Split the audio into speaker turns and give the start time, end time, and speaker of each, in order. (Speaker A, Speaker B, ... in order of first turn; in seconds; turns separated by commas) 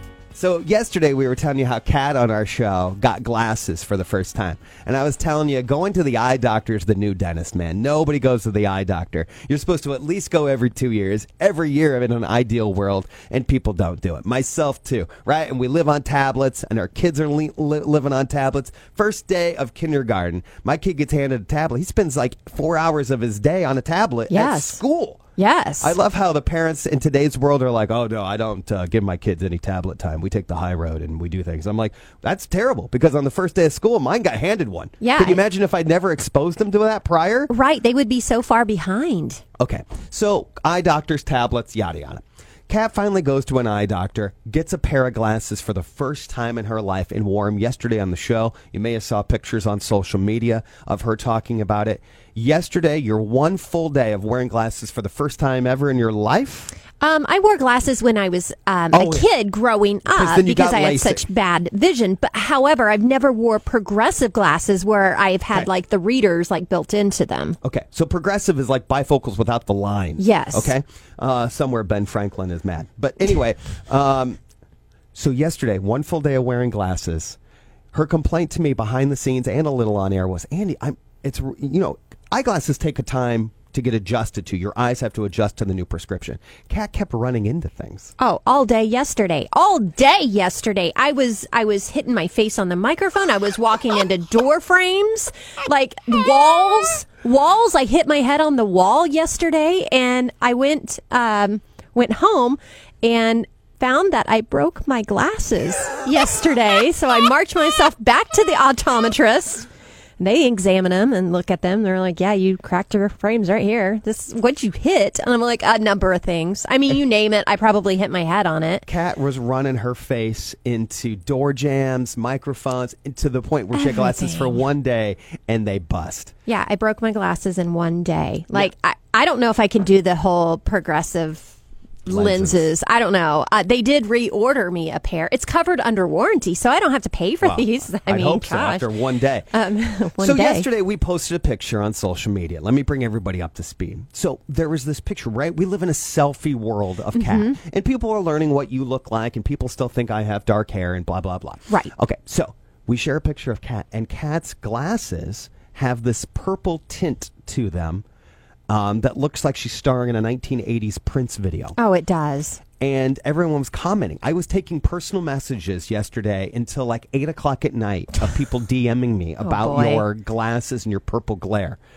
Speaker A: 0.3-25.2, Speaker B: 24.3-24.8, Speaker B: 25.4-25.9, Speaker A: 25.8-37.5, Speaker B: 35.0-35.4, Speaker B: 37.5-39.4, Speaker A: 39.6-56.7, Speaker B: 57.0-67.6, Speaker A: 58.9-59.3, Speaker A: 60.1-61.2, Speaker A: 67.6-74.4, Speaker B: 70.2-70.7, Speaker A: 75.1-77.4, Speaker A: 77.9-88.1, Speaker B: 88.2-109.7, Speaker B: 110.2-118.8, Speaker A: 118.8-126.3, Speaker B: 123.7-124.6, Speaker B: 126.5-131.5, Speaker B: 132.1-138.9, Speaker A: 132.1-132.6, Speaker A: 137.4-139.5, Speaker B: 139.5-140.7, Speaker A: 140.2-158.0, Speaker B: 147.1-147.6, Speaker A: 158.7-161.8, Speaker B: 161.8-162.6, Speaker A: 162.8-171.8, Speaker B: 169.4-170.0